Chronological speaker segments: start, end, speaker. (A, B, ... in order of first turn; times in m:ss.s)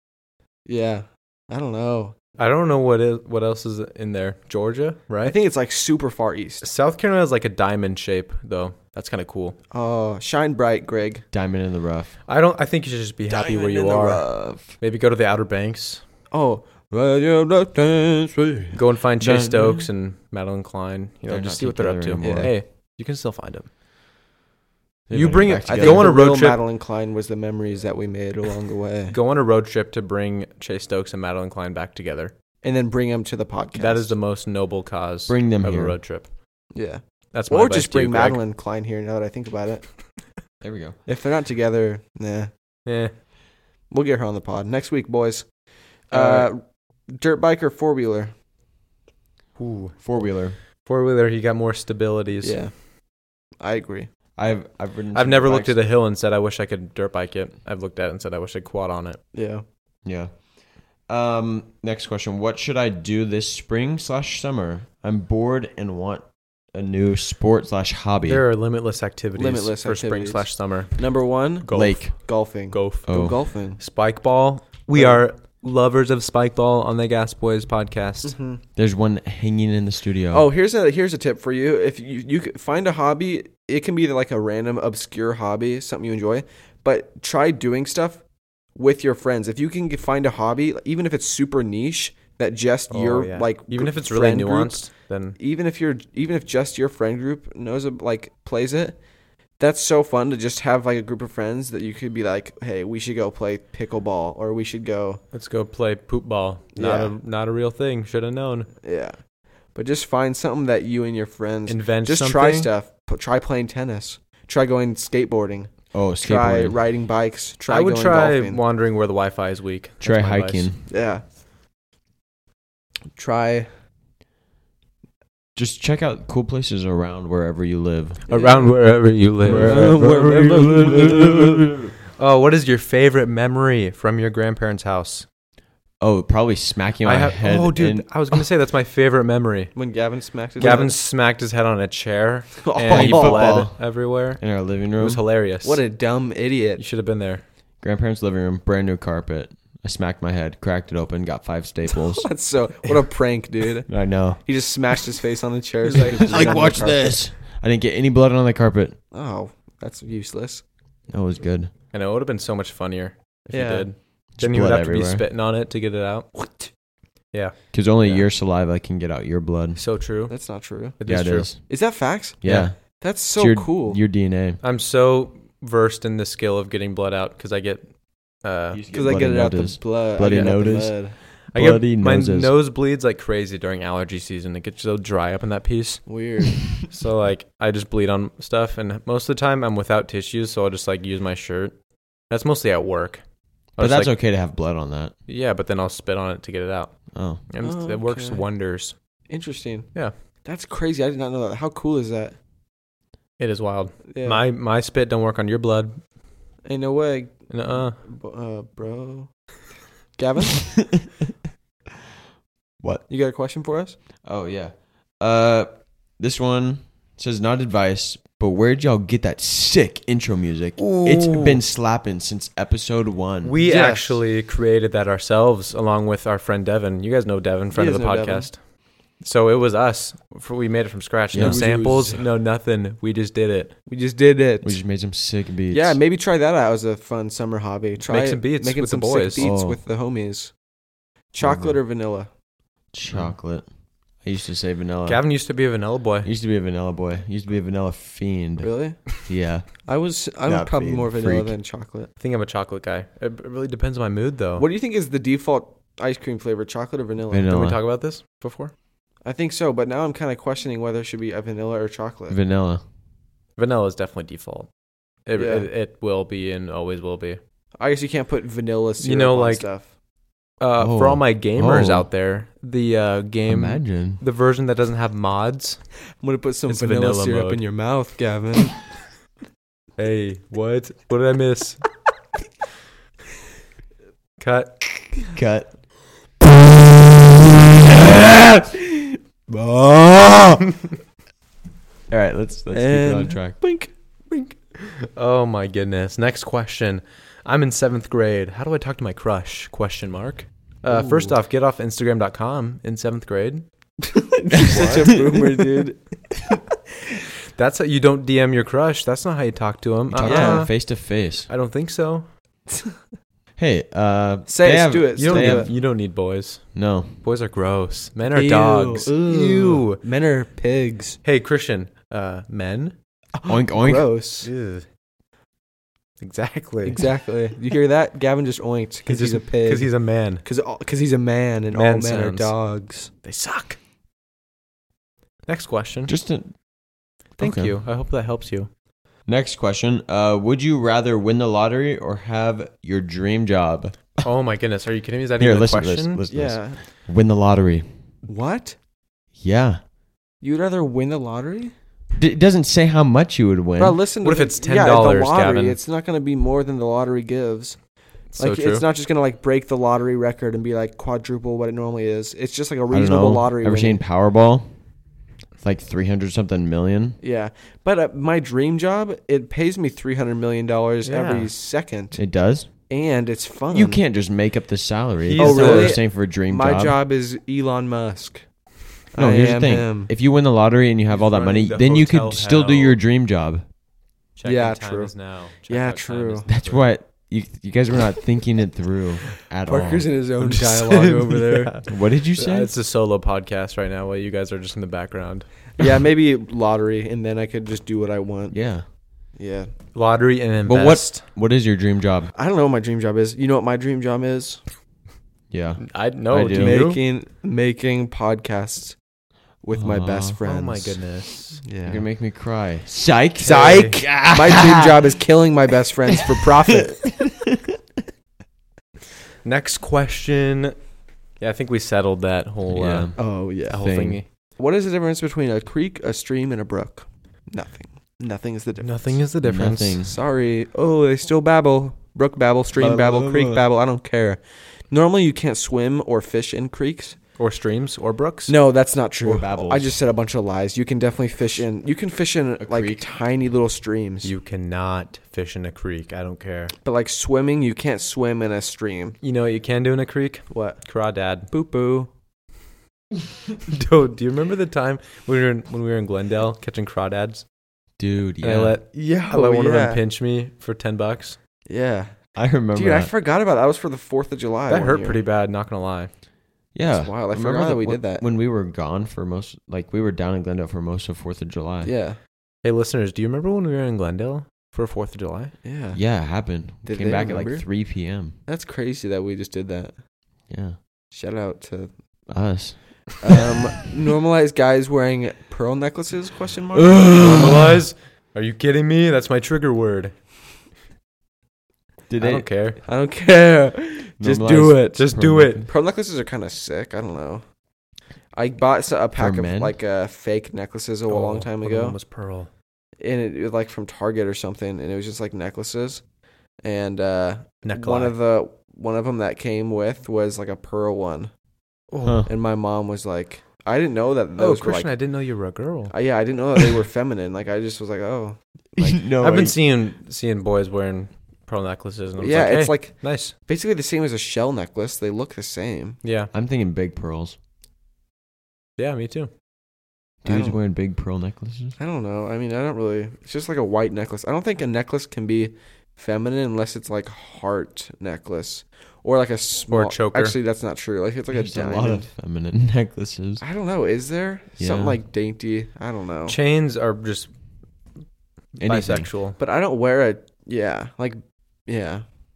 0:00.6-0:02.1 A
0:02.4-0:05.4 B
0:05.2-0:06.6 A
0:06.6-0:09.6 B
0:09.7-0:11.2 A
0:11.3-0:12.2 C
0:12.3-0:16.0 B
0:13.3-0:14.7 C
0:16.3-0:18.8 A
0:18.7-0:23.7 B
0:19.2-0:19.9 C
0:21.3-0:22.5 C
0:22.2-0:22.5 A
0:25.1-0:26.1 C
0:25.1-0:26.6 B
0:25.6-0:29.1 A
0:29.1-0:32.3 B
0:32.6-0:34.1 A
0:33.8-0:36.3 B
0:35.3-0:36.0 C
0:36.7-0:39.9 A
0:37.3-0:38.4 B
0:40.6-0:41.0 C
0:41.0-0:42.5 A
0:42.8-0:43.1 B
0:43.9-0:45.5 A
0:46.1-0:48.3 A
0:46.1-0:46.5 B
0:49.6-0:50.0 B
0:50.0-0:50.6 C
0:50.8-0:52.6 B
0:52.4-0:52.9 A
0:53.6-0:54.1 A
0:54.4-0:55.8 C
0:55.1-0:59.2 B
0:59.3-0:59.6 A
1:00.0-1:00.4 C
1:01.0-1:08.4 C
1:08.2-1:11.1 B
1:09.4-1:13.8 A
1:11.6-1:18.4 B
1:11.7-1:12.1 C
1:13.0-1:13.4 C
1:14.9-1:15.2 A
1:18.2-1:18.6 A
1:18.8-1:20.5 C
1:20.3-1:28.2 A
1:28.7-1:39.0 A
1:32.9-1:35.4 B
1:39.6-1:45.2 A
1:45.3-1:48.7 B
1:46.8-1:47.1 A
1:48.8-1:49.2 A
1:49.7-1:58.6 A
1:51.7-1:52.7 B
1:55.9-1:56.8 C
1:57.7-2:00.7 B
2:00.0-2:00.8 C
2:00.9-2:01.2 A
2:03.2-2:03.7 A
2:05.6-2:08.2 C
2:08.3-2:09.9 B
2:08.3-2:11.6 A
2:09.4-2:11.9 C
2:12.2-2:15.3 B
2:16.0-2:18.4 C
2:17.0-2:19.8 B
2:19.7-2:21.0 A
2:20.6-2:25.8 B
2:22.6-2:23.6 A
2:22.9-2:25.2 C
2:25.6-2:26.8 A
2:26.8-2:27.4 B
2:27.8-2:32.3 C
2:31.9-2:37.3 A
2:33.9-2:34.4 C
2:35.8-2:36.8 B
2:36.2-2:39.0 C
2:39.1-2:40.6 A
2:41.1-2:41.7 C
2:41.9-2:46.4 B
2:43.5-2:43.9 A
2:44.4-2:45.2 C
2:46.4-2:46.7 A
2:47.3-2:48.3 B
2:47.7-2:49.8 C
2:49.8-2:51.5 B
2:50.3-2:51.0 A
2:51.0-2:51.7 C
2:51.5-2:54.0 A
2:52.4-2:54.6 C
2:52.4-2:52.7 B
2:54.6-2:58.8 B
2:58.7-3:02.5 C
2:58.9-3:01.2 A
3:01.5-3:06.0 B
3:06.0-3:06.8 A
3:06.9-3:14.2 B
3:13.8-3:15.1 C
3:15.3-3:19.0 B
3:17.1-3:17.4 C
3:17.6-3:18.4 A
3:19.3-3:22.4 A
3:23.4-3:26.0 B
3:24.1-3:24.4 A
3:26.6-3:29.5 A
3:27.5-3:28.0 B
3:30.2-3:31.0 A
3:33.1-3:34.0 A
3:34.2-3:43.6 C
3:40.8-3:41.6 B
3:43.4-3:48.6 B
3:43.6-3:44.1 A
3:47.7-3:48.5 A
3:49.2-3:53.8 B
3:51.3-3:51.6 C
3:51.4-3:52.2 A
3:53.9-3:54.8 A
3:54.6-3:56.0 C
3:55.7-4:00.6 A
3:58.0-3:59.5 B
3:59.4-3:59.8 C
4:01.3-4:02.3 A
4:01.4-4:01.8 C
4:02.9-4:03.7 C
4:04.2-4:05.3 C
4:05.0-4:06.3 B
4:06.2-4:09.8 C
4:08.6-4:09.2 A
4:09.8-4:12.1 A
4:10.4-4:11.6 C
4:12.2-4:14.6 B
4:14.6-4:17.5 A
4:17.3-4:17.8 C
4:17.5-4:18.7 B
4:19.2-4:22.4 A
4:22.3-4:22.8 C
4:23.6-4:24.7 B
4:25.2-4:27.4 B
4:25.4-4:25.7 A
4:27.8-4:29.9 A
4:29.0-4:29.6 B
4:30.6-4:35.8 B
4:30.8-4:32.1 C
4:33.5-4:34.2 C
4:36.2-4:38.9 A
4:36.7-4:37.6 B
4:40.0-4:41.8 B
4:44.4-4:45.1 B
4:45.3-4:45.7 C
4:47.8-4:48.7 C
4:50.0-4:50.4 C
4:52.1-4:53.6 C
4:52.7-4:53.9 A
4:54.3-5:03.6 B
5:04.1-5:06.0 A
5:04.5-5:05.4 C
5:04.6-5:05.2 B
5:07.6-5:12.3 B
5:10.1-5:11.5 C
5:10.2-5:10.6 A
5:13.6-5:15.7 C
5:14.5-5:15.7 A
5:15.2-5:20.0 B
5:16.7-5:17.2 C
5:18.3-5:21.2 A
5:21.2-5:22.9 B
5:23.4-5:24.5 A
5:23.4-5:24.1 C
5:24.4-5:24.9 B
5:26.2-5:27.0 B
5:26.8-5:33.1 A
5:29.1-5:30.4 B
5:31.7-5:32.5 B
5:33.2-5:33.8 B
5:35.5-5:36.1 B
5:36.1-5:36.6 C
5:37.4-5:38.7 B
5:37.4-5:37.8 C
5:39.3-5:44.3 C
5:44.2-5:46.2 B
5:45.4-5:47.9 C
5:46.3-5:46.8 A
5:48.2-5:48.8 A
5:49.4-5:49.8 C
5:50.4-5:51.7 A
5:52.1-5:54.0 C
5:53.8-6:04.0 A
5:54.2-5:55.8 B
5:58.3-5:58.8 B
6:02.9-6:04.7 C
6:05.6-6:07.2 C
6:07.2-6:12.2 A
6:11.0-6:11.5 B
6:12.1-6:12.7 C
6:12.9-6:14.0 A
6:13.7-6:17.0 C
6:15.2-6:16.0 B
6:15.4-6:18.5 A
6:19.1-6:20.1 A
6:19.1-6:23.6 C
6:21.1-6:23.0 B
6:24.4-6:26.9 B
6:24.4-6:26.5 A
6:26.5-6:30.1 C
6:29.6-6:31.8 A
6:30.4-6:35.6 B
6:31.9-6:32.7 C
6:35.8-6:38.8 A
6:38.5-6:38.8 C
6:39.3-6:39.7 A
6:39.9-6:41.2 B
6:40.6-6:42.3 C
6:42.3-6:44.6 A
6:45.5-6:46.8 C
6:45.8-6:47.0 B
6:46.5-6:49.0 A
6:49.6-6:51.0 A
6:49.7-6:50.4 C
6:50.4-6:51.6 B
6:51.6-6:52.0 A
6:51.8-6:55.0 C
6:53.4-6:54.0 B
6:53.4-6:57.1 A
6:57.0-6:57.6 C
6:59.4-7:00.7 B
7:01.4-7:04.3 B
7:02.7-7:04.2 C
7:03.2-7:03.9 A
7:04.5-7:09.2 A
7:08.8-7:10.0 B
7:09.4-7:10.2 C
7:10.0-7:17.2 A
7:12.8-7:13.6 C
7:17.4-7:18.5 B
7:18.5-7:24.3 A
7:19.2-7:19.9 C
7:22.6-7:23.0 C
7:24.2-7:26.7 B
7:26.8-7:29.2 A
7:29.2-7:31.5 B
7:30.5-7:30.8 A
7:31.5-7:32.1 A
7:33.7-7:37.4 B
7:38.0-7:38.8 C
7:38.4-7:41.4 B
7:38.9-7:40.0 A
7:41.6-7:45.2 A
7:42.3-7:43.1 C
7:44.7-7:46.1 B
7:46.7-7:51.9 C
7:46.9-7:48.2 A
7:51.8-7:52.2 A
7:52.6-7:55.5 B
7:55.6-7:57.9 A
7:55.9-7:58.4 C
7:58.4-7:59.9 A
8:00.5-8:00.8 C
8:01.1-8:01.9 A
8:02.3-8:03.3 C
8:03.2-8:07.6 A
8:06.7-8:07.7 C
8:07.1-8:10.1 B
8:12.1-8:12.5 C
8:12.2-8:12.8 B
8:12.8-8:15.1 A
8:14.2-8:15.7 C
8:14.9-8:15.6 B
8:15.6-8:17.4 A
8:18.3-8:22.0 A
8:19.1-8:19.8 C
8:21.1-8:22.5 B
8:23.0-8:26.0 A
8:26.6-8:31.3 A
8:27.6-8:28.2 B
8:31.9-8:32.2 B
8:32.0-8:32.3 C
8:32.3-8:35.0 A
8:34.4-8:35.9 B
8:35.9-8:39.0 A
8:38.8-8:39.6 C
8:39.2-8:43.3 B
8:42.2-8:46.0 A
8:46.0-8:46.3 B
8:46.3-8:47.4 C
8:48.8-8:49.3 B
8:50.2-8:51.7 C
8:50.3-8:50.6 A
8:51.8-9:02.1 A
8:59.7-9:00.4 B
9:01.3-9:03.4 C
9:03.4-9:06.4 A
9:04.6-9:05.0 C
9:06.3-9:07.3 B
9:08.6-9:09.4 B
9:08.6-9:09.1 C
9:09.4-9:12.0 A